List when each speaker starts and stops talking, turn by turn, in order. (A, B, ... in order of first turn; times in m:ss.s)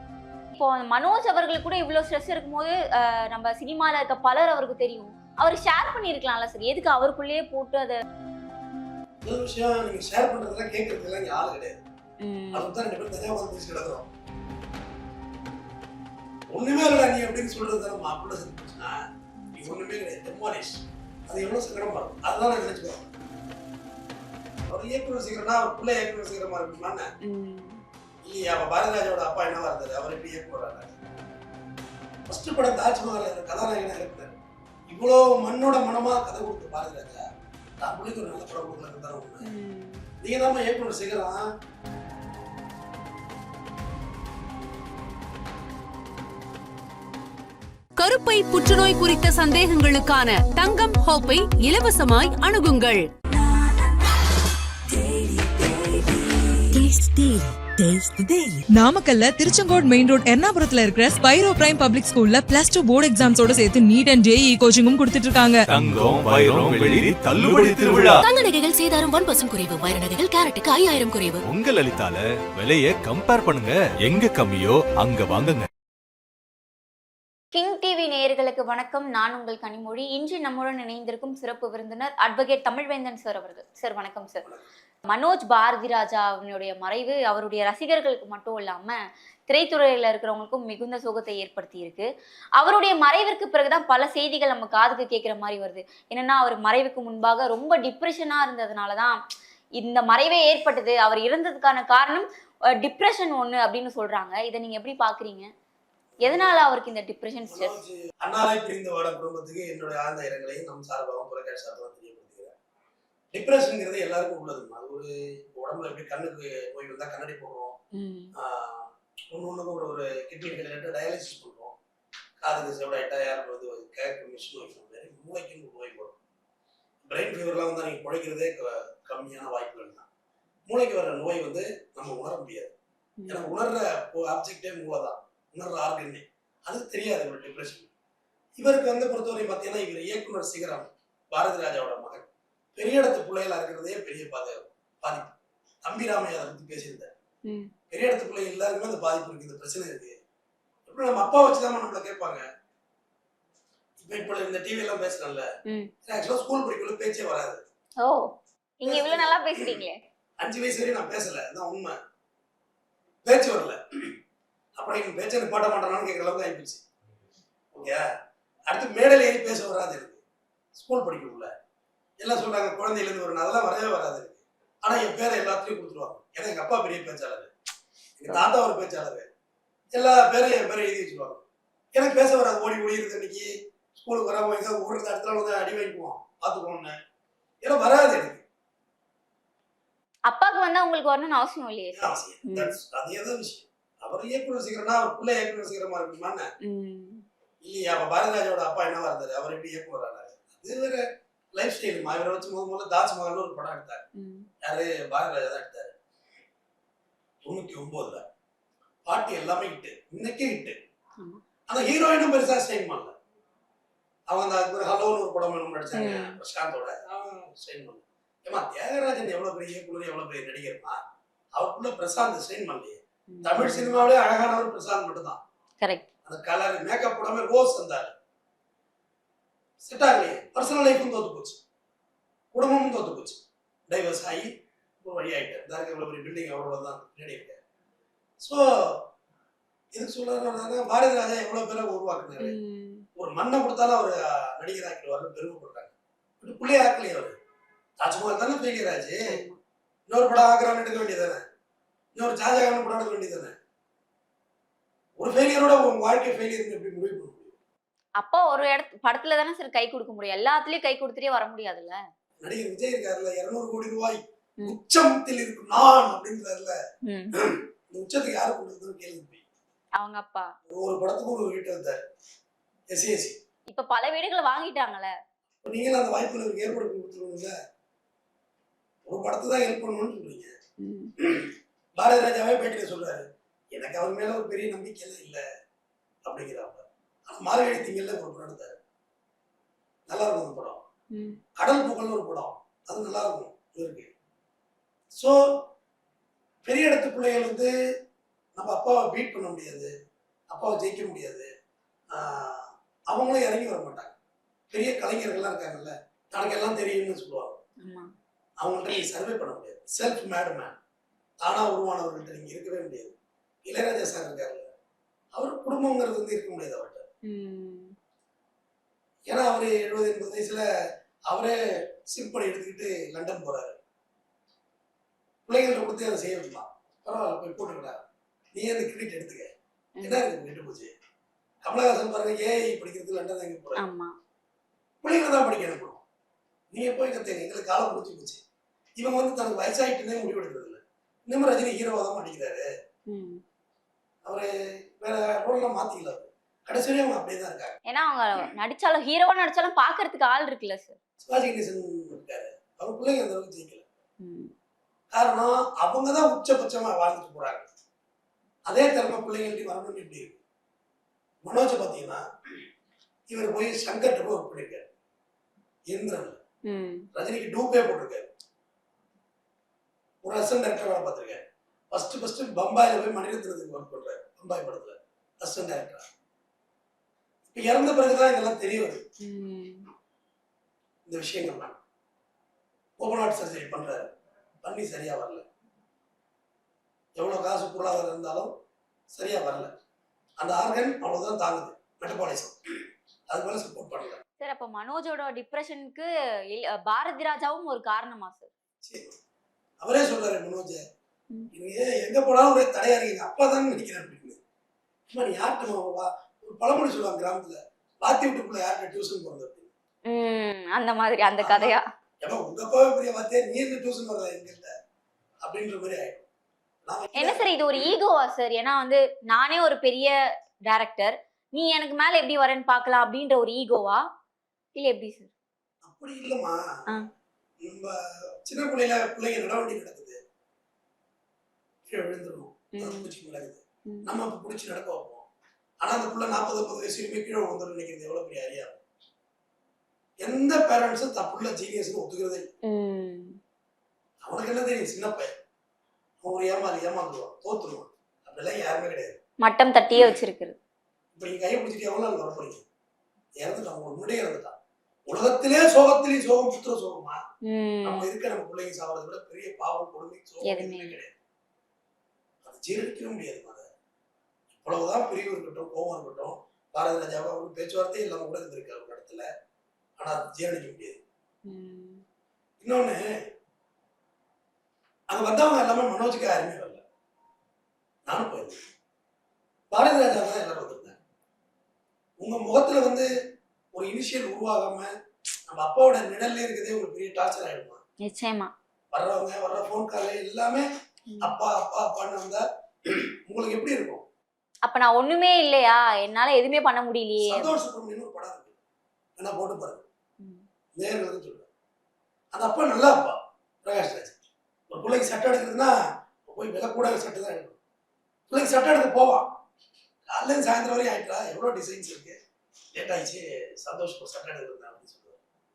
0:00.6-0:08.0 A
0:09.2-0:11.8 B
0:12.2-0:12.7 A
0:12.5-0:14.1 B
0:16.5-0:19.0 B
0:19.4-0:19.8 A
0:19.6-0:23.1 B
0:24.7-0:27.1 B
0:27.2-0:27.8 A
0:28.2-0:30.9 B
0:32.3-0:34.4 B
0:34.9-0:37.2 B
0:37.8-0:39.5 B
0:39.4-0:40.0 A
0:40.2-0:41.5 B
0:48.0-0:53.0 C
0:56.7-0:58.6 D
0:58.7-1:05.6 E
1:05.7-1:08.2 F
1:08.2-1:11.4 D
1:11.4-1:15.7 F
1:17.5-1:24.4 A
1:25.1-1:29.0 A
1:29.5-1:39.2 A
1:39.8-1:45.5 A
1:46.2-1:46.6 B
1:46.2-1:47.8 A
1:47.4-1:52.6 B
1:53.3-1:57.8 B
1:57.9-1:58.3 A
1:58.3-2:01.7 B
2:02.4-2:06.2 B
2:07.0-2:10.1 B
2:10.7-2:12.7 B
2:13.2-2:13.6 A
2:13.3-2:17.9 B
2:18.6-2:27.1 B
2:27.5-2:27.7 A
2:27.9-2:30.2 B
2:30.9-2:32.4 B
2:34.0-2:35.5 B
2:35.7-2:35.9 A
2:36.0-2:37.6 B
2:38.0-2:40.0 A
2:38.8-2:39.8 B
2:40.4-2:42.0 B
2:43.2-2:44.2 B
2:44.8-2:46.8 B
2:47.7-2:48.1 B
2:48.7-2:50.2 B
2:50.8-2:51.5 B
2:52.2-2:57.5 B
2:58.2-2:59.3 B
2:59.9-3:01.4 B
3:02.0-3:07.0 B
3:07.6-3:08.4 B
3:10.3-3:12.8 A
3:11.9-3:16.5 B
3:16.6-3:17.3 A
3:17.6-3:24.0 B
3:24.2-3:24.5 A
3:24.6-3:25.9 B
3:27.4-3:28.3 B
3:29.0-3:30.8 B
3:31.7-3:33.1 B
3:34.3-3:41.0 B
3:36.0-3:36.4 A
3:41.6-3:45.4 B
3:43.3-3:44.0 A
3:45.8-3:46.1 A
3:46.2-3:48.1 B
3:49.8-3:51.6 B
3:52.5-3:54.5 B
3:55.0-3:57.6 B
3:58.4-3:59.1 B
3:59.9-4:02.6 B
4:02.4-4:03.1 A
4:03.2-4:07.3 B
4:08.0-4:09.2 B
4:09.3-4:09.6 A
4:10.1-4:11.4 B
4:12.2-4:13.5 B
4:15.2-4:17.5 B
4:18.2-4:22.0 A
4:22.4-4:26.8 B
4:27.1-4:27.3 A
4:27.4-4:29.4 B
4:30.0-4:30.5 A
4:30.7-4:32.0 B
4:32.9-4:33.4 B
4:33.7-4:35.1 A
4:35.6-4:37.5 B
4:39.1-4:40.5 B
4:40.8-4:41.1 A
4:41.2-4:45.4 B
4:46.2-4:48.8 B
4:50.1-4:50.8 B
4:51.1-4:51.4 A
4:51.6-4:54.1 B
4:55.2-4:55.6 B
4:56.6-4:57.7 B
4:58.5-4:59.9 B
5:00.5-5:01.5 B
5:02.1-5:04.1 B
5:04.7-5:07.6 B
5:07.8-5:08.1 A
5:08.6-5:10.8 B
5:11.4-5:13.1 B
5:13.6-5:14.7 B
5:15.3-5:17.1 B
5:17.2-5:18.0 A
5:19.3-5:20.6 B
5:21.3-5:23.8 B
5:25.5-5:28.0 B
5:28.5-5:29.5 B
5:30.0-5:30.9 B
5:31.6-5:33.8 B
5:33.8-5:34.1 A
5:35.0-5:36.0 B
5:36.7-5:38.4 B
5:39.0-5:42.7 B
5:43.1-5:43.4 A
5:44.2-5:47.8 B
5:47.9-5:51.0 A
5:51.2-5:53.8 B
5:54.2-5:54.5 A
5:55.1-5:57.7 B
5:58.7-6:00.4 B
6:01.4-6:02.2 B
6:03.3-6:04.9 B
6:05.9-6:06.4 B
6:06.6-6:07.1 A
6:07.1-6:08.3 B
6:10.2-6:16.1 B
6:17.5-6:19.0 B
6:19.2-6:19.9 A
6:21.1-6:21.8 B
6:23.0-6:24.1 B
6:24.6-6:25.4 B
6:27.2-6:28.5 B
6:29.1-6:29.7 B
6:30.4-6:32.6 B
6:33.3-6:34.2 B
6:34.4-6:38.5 A
6:38.8-6:39.2 B
6:39.8-6:40.8 B
6:41.5-6:44.4 B
6:45.1-6:49.7 B
6:50.1-6:51.8 A
6:51.4-6:54.7 B
6:55.4-6:56.2 B
6:56.8-6:57.9 B
6:57.2-7:00.1 A
7:00.7-7:04.0 A
7:04.8-7:05.3 A
7:05.8-7:07.0 B
7:07.6-7:10.2 B
7:11.9-7:15.2 B
7:12.8-7:13.1 A
7:15.8-7:18.8 B
7:20.2-7:22.5 B
7:22.6-7:23.4 A
7:24.2-7:25.3 B
7:26.2-7:29.2 B
7:29.4-7:30.6 A
7:31.2-7:32.6 B
7:33.4-7:34.6 B
7:35.1-7:37.2 B
7:37.4-7:38.1 A
7:37.8-7:41.1 B
7:40.4-7:41.0 A
7:42.4-7:43.6 B
7:44.5-7:49.3 B
7:50.0-7:51.0 B
7:51.4-7:52.0 A
7:52.6-7:53.0 B
7:55.1-7:56.8 B
7:58.1-7:58.6 B
7:59.7-8:01.0 B
8:02.2-8:03.1 B
8:03.7-8:04.9 B
8:05.5-8:07.8 B
8:08.0-8:08.5 A
8:08.9-8:10.6 B
8:11.1-8:11.4 A
8:11.2-8:14.0 B
8:14.6-8:17.5 A
8:17.2-8:18.6 B
8:19.2-8:19.8 B
8:20.2-8:20.4 A
8:20.8-8:21.5 B
8:22.3-8:24.2 B
8:24.7-8:25.7 B
8:26.3-8:27.6 B
8:28.3-8:29.4 B
8:30.1-8:32.2 B
8:32.7-8:35.2 B